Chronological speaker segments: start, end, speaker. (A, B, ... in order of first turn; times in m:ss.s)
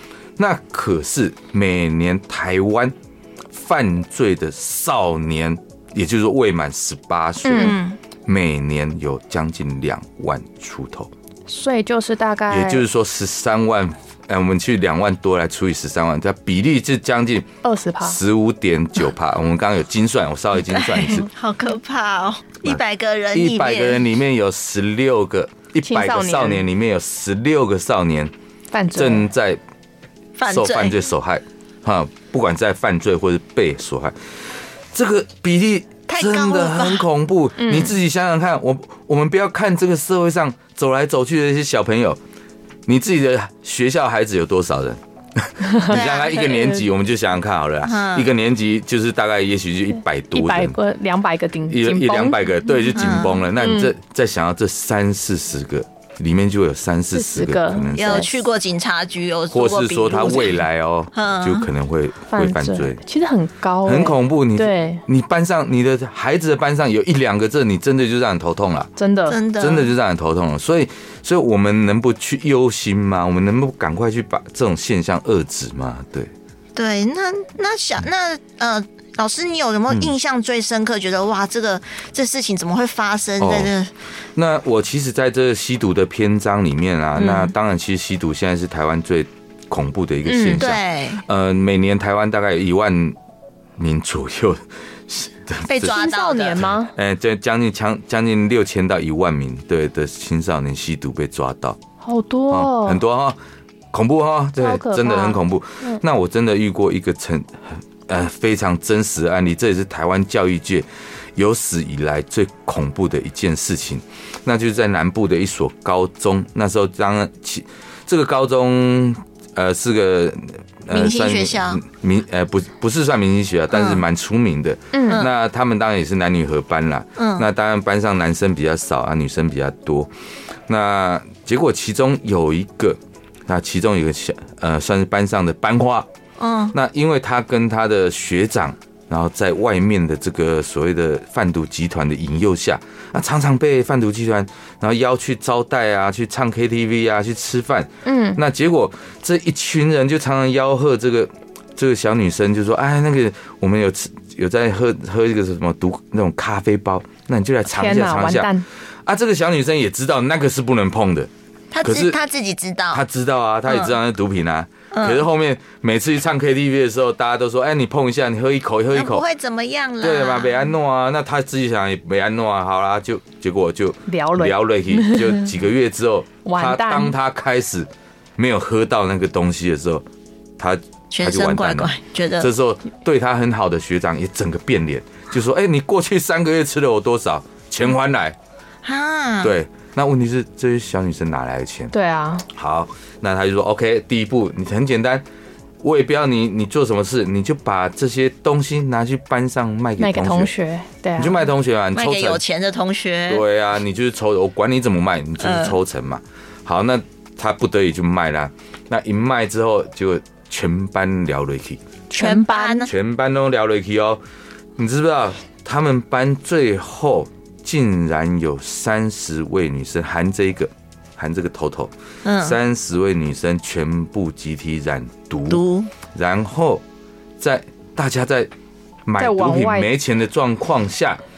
0:00.4-0:02.9 A
0:03.5-0:11.1 A
0:07.4-0:07.8 B
0:07.5-0:08.0 C
0:11.5-0:12.8 B
0:12.5-0:17.5 A
0:17.6-0:18.2 B
0:18.0-0:21.3 A
0:20.7-0:24.0 C
0:23.3-0:28.3 A
0:25.8-0:26.6 B
0:28.7-0:29.3 B
0:28.9-0:29.6 A
0:30.4-0:31.0 C
0:30.4-0:34.1 A
0:34.9-0:42.2 A
0:36.1-0:37.1 C
0:37.6-0:38.0 B
0:42.9-0:50.8 A
0:45.6-0:45.9 B
0:45.9-0:46.8 C
0:47.8-0:48.3 C
0:50.3-0:52.7 B
0:51.7-0:58.3 A
0:52.9-0:53.5 C
0:53.6-0:53.9 B
0:57.1-0:58.3 B
0:58.0-1:01.7 C
0:59.5-1:03.0 A
1:02.3-1:05.0 B
1:03.8-1:08.9 A
1:09.0-1:09.4 B
1:09.3-1:09.9 C
1:09.6-1:16.3 A
1:16.8-1:23.9 C
1:23.4-1:23.7 A
1:24.4-1:33.2 A
1:27.2-1:27.5 C
1:30.2-1:30.7 B
1:30.6-1:31.2 C
1:33.8-1:36.0 A
1:35.7-1:36.6 C
1:35.8-1:36.9 B
1:36.9-1:41.8 A
1:42.0-1:43.0 B
1:42.5-1:43.4 A
1:43.9-2:10.1 A
1:44.6-1:46.0 B
2:00.9-2:01.8 C
2:03.7-2:04.0 C
2:04.9-2:05.2 B
2:07.2-2:07.5 C
2:10.7-2:16.1 A
2:16.4-2:16.7 C
2:16.7-2:38.5 A
2:28.0-2:28.4 B
2:37.7-2:38.6 B
2:39.0-2:41.3 A
2:41.7-2:43.0 C
2:41.8-2:42.2 A
2:42.9-2:49.2 A
2:43.7-2:43.9 C
2:44.9-2:45.2 C
2:48.9-2:50.7 C
2:50.0-3:00.0 A
2:54.1-2:55.3 B
2:56.4-2:57.1 B
3:00.6-3:08.4 A
3:01.1-3:02.5 C
3:08.8-3:09.5 C
3:09.4-3:11.9 A
3:11.9-3:12.4 B
3:12.5-3:15.2 A
3:15.8-3:20.5 A
3:20.0-3:21.4 B
3:21.2-3:22.4 A
3:21.9-3:23.4 C
3:23.3-3:31.8 A
3:25.4-3:25.8 C
3:32.1-3:32.9 B
3:32.1-3:32.9 C
3:32.9-3:34.2 A
3:34.8-3:46.8 A
3:42.2-3:42.6 C
3:45.5-3:45.9 C
3:47.4-3:48.5 A
3:49.0-3:51.2 A
3:49.2-3:49.9 B